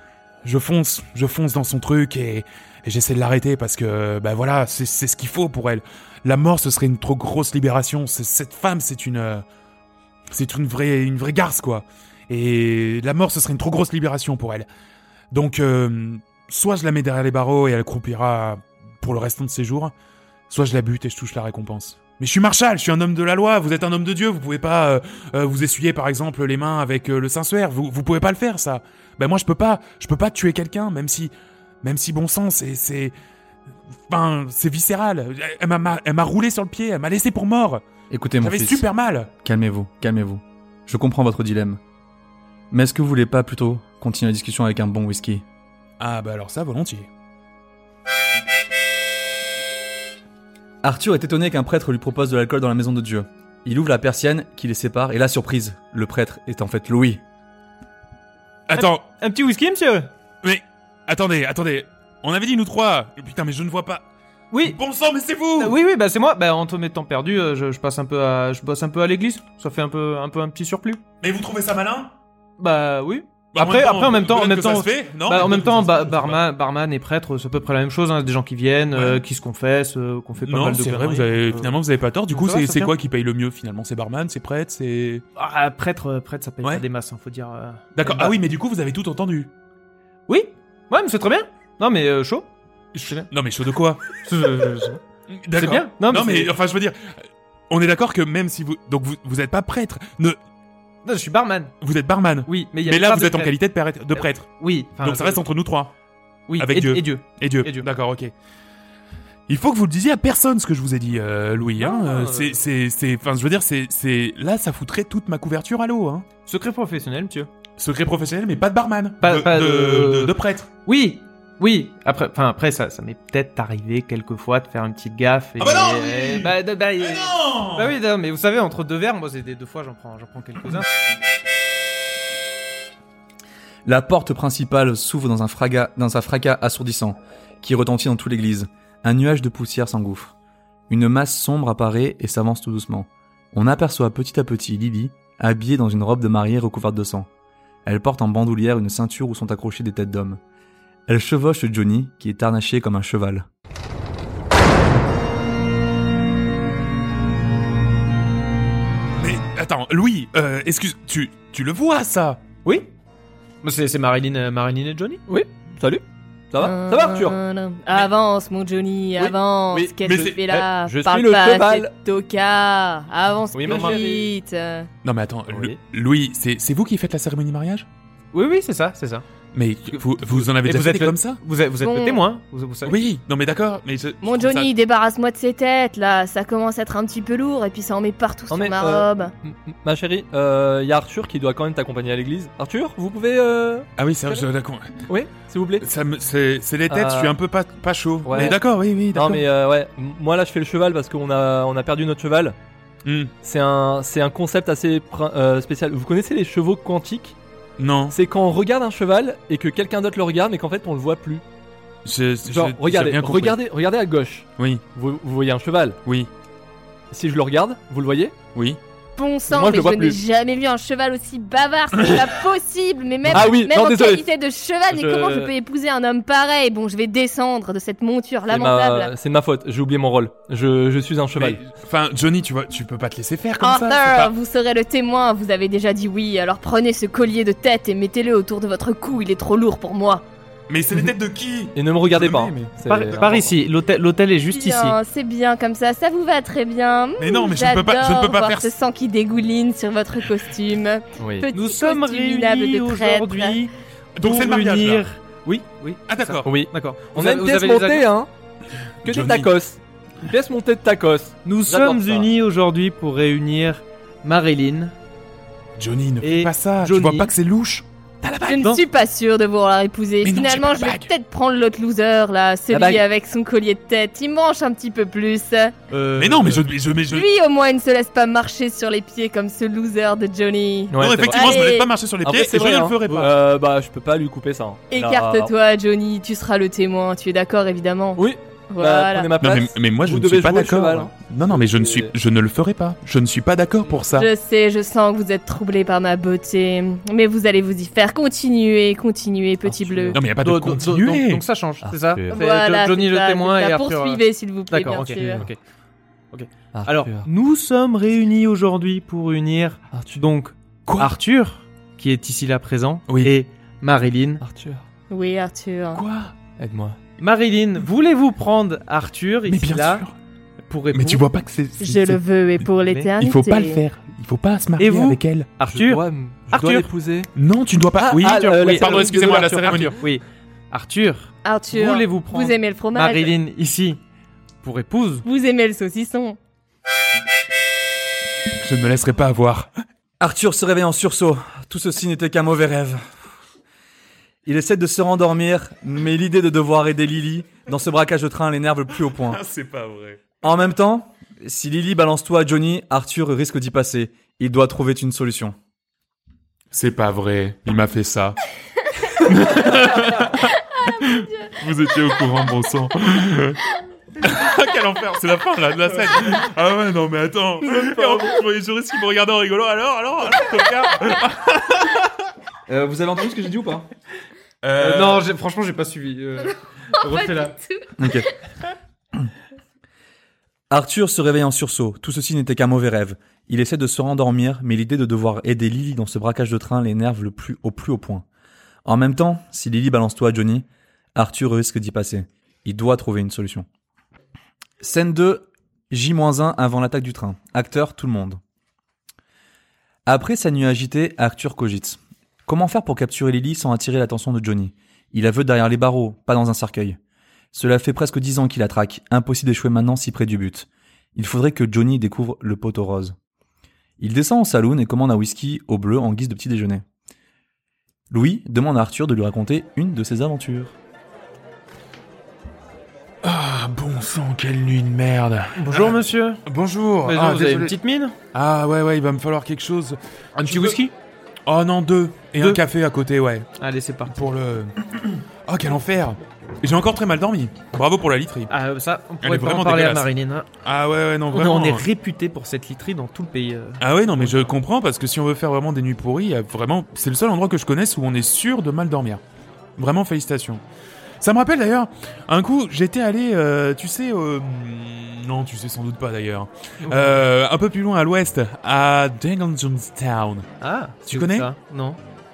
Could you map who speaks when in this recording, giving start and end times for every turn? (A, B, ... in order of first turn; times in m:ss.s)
0:00.4-0:09.4 A
0:10.3-0:14.7 A
0:15.3-0:19.9 A
0:20.5-0:31.3 A
0:31.8-0:33.1 A
0:34.1-0:37.8 A
0:38.1-0:38.8 B
0:38.4-0:39.3 A
0:39.4-0:41.8 B
0:42.7-0:45.4 B
0:46.0-0:47.1 A
0:50.8-0:57.2 B
0:58.7-0:59.0 A
0:58.7-1:00.1 C
1:00.4-1:04.0 A
1:04.5-1:04.8 C
1:04.6-1:05.8 A
1:05.6-1:11.0 C
1:11.2-1:12.1 A
1:12.6-1:21.8 C
1:13.5-1:16.4 A
1:18.9-1:19.2 A
1:20.4-1:25.2 A
1:22.3-1:22.9 C
1:25.4-1:28.4 C
1:28.0-1:29.5 A
1:30.3-1:32.5 C
1:33.0-1:34.0 A
1:34.2-1:35.0 C
1:35.4-1:40.4 A
1:35.6-1:36.5 C
1:41.0-1:41.7 C
1:41.8-1:45.9 A
1:42.5-1:43.5 C
1:44.2-1:45.4 C
1:46.5-1:47.9 C
1:46.6-1:48.3 A
1:49.5-1:56.3 A
1:51.8-1:52.6 C
1:56.5-1:57.5 C
1:57.8-2:00.7 A
1:59.2-2:00.3 C
2:00.8-2:10.9 C
2:05.6-2:07.9 A
2:13.8-2:20.3 B
2:20.9-2:27.3 B
2:27.8-2:30.4 B
2:31.1-2:33.5 B
2:39.2-2:42.4 A
2:43.6-2:45.2 C
2:45.3-2:47.4 D
2:46.6-2:54.9 E
2:49.2-2:51.9 D
2:50.0-2:50.4 A
2:53.6-2:54.0 C
2:53.6-2:54.3 D
2:55.0-2:57.9 A
2:55.5-2:55.8 D
2:58.3-2:59.2 C
2:59.5-3:01.4 A
2:59.9-3:03.0 C
3:01.8-3:02.2 E
3:02.8-3:04.7 A
3:04.2-3:09.3 E
3:08.5-3:14.4 D
3:14.0-3:15.0 A
3:15.1-3:15.8 D
3:15.8-3:19.4 A
3:16.9-3:17.4 D
3:18.2-3:18.6 D
3:19.1-3:22.6 D
3:23.0-3:23.3 A
3:23.4-3:27.4 D
3:27.8-3:28.2 A
3:28.1-3:31.4 D
3:32.0-3:33.6 A
3:32.5-3:36.0 D
3:34.6-3:34.8 A
3:36.0-3:36.3 A
3:37.1-3:38.4 D
3:39.2-3:49.1 E
3:39.5-3:40.2 D
3:43.3-3:44.2 D
3:44.9-3:45.5 D
3:48.5-3:51.6 D
3:51.4-3:54.3 A
3:53.6-4:00.2 E
4:00.7-4:02.7 A
4:01.8-4:03.5 D
4:02.9-4:05.0 C
4:04.5-4:13.6 E
4:07.2-4:08.7 A
4:11.2-4:11.5 D
4:11.5-4:18.0 C
4:14.2-4:15.0 A
4:16.1-4:16.5 A
4:16.4-4:18.3 D
4:19.0-4:19.5 A
4:19.0-4:22.3 D
4:21.4-4:25.0 C
4:25.8-4:28.7 A
4:26.2-4:27.3 C
4:28.4-4:35.7 E
4:30.2-4:31.1 A
4:32.7-4:33.0 D
4:35.9-4:36.7 C
4:36.2-4:37.3 A
4:37.1-4:41.9 E
4:40.9-4:41.7 D
4:41.0-4:43.3 A
4:42.2-4:45.5 D
4:44.9-4:49.3 E
4:48.2-4:52.1 D
4:49.4-4:54.3 A
4:54.1-5:00.2 E
4:59.6-5:00.2 D
5:00.1-5:01.4 A
5:00.4-5:05.6 C
5:01.8-5:02.4 D
5:02.3-5:05.5 E
5:05.0-5:05.5 D
5:06.3-5:14.4 C
5:06.7-5:07.3 D
5:09.9-5:10.2 D
5:10.9-5:11.2 A
5:13.1-5:13.3 A
5:14.4-5:14.8 D
5:15.1-5:16.0 E
5:16.0-5:16.3 A
5:16.6-5:17.0 D
5:17.2-5:20.0 C
5:19.5-5:20.1 A
5:20.7-5:21.2 C
5:20.9-5:22.2 A
5:21.8-5:23.8 E
5:23.2-5:25.5 A
5:24.8-5:26.9 C
5:25.7-5:27.3 D
5:27.4-5:30.0 A
5:28.0-5:29.9 D
5:28.3-5:34.0 C
5:31.4-5:33.3 E
5:34.6-5:35.2 C
5:35.2-5:36.4 E
5:38.6-5:39.7 A
5:40.2-5:43.2 B
5:44.4-5:49.4 B
5:49.2-5:50.2 A
5:50.4-5:55.6 B
5:56.7-5:58.4 A
5:59.1-6:03.6 A
6:01.0-6:01.3 E
6:04.2-6:12.1 A
6:12.7-6:13.9 B
6:14.6-6:15.3 A
6:14.8-6:17.6 C
6:17.0-6:18.0 E
6:18.0-6:18.3 B
6:20.7-6:28.2 B
6:28.8-6:33.7 B
6:34.8-6:38.4 B
6:40.1-6:47.0 B
6:47.5-6:53.2 B
6:54.0-6:56.8 B
6:58.1-7:00.8 B
7:03.2-7:07.8 A
7:05.6-7:06.4 C
7:07.0-7:08.2 C
7:08.3-7:10.8 A
7:10.4-7:10.9 C
7:11.5-7:13.5 A
7:13.6-7:14.1 C
7:14.1-7:14.8 A
7:15.5-7:18.5 A
7:18.5-7:20.5 C
7:19.2-7:20.1 A
7:20.6-7:21.9 A
7:21.3-7:24.5 C
7:23.8-7:29.2 A
7:29.8-7:30.6 A
7:31.2-7:40.5 A
7:36.8-7:37.2 C
7:40.6-7:42.0 C
7:41.1-7:41.5 A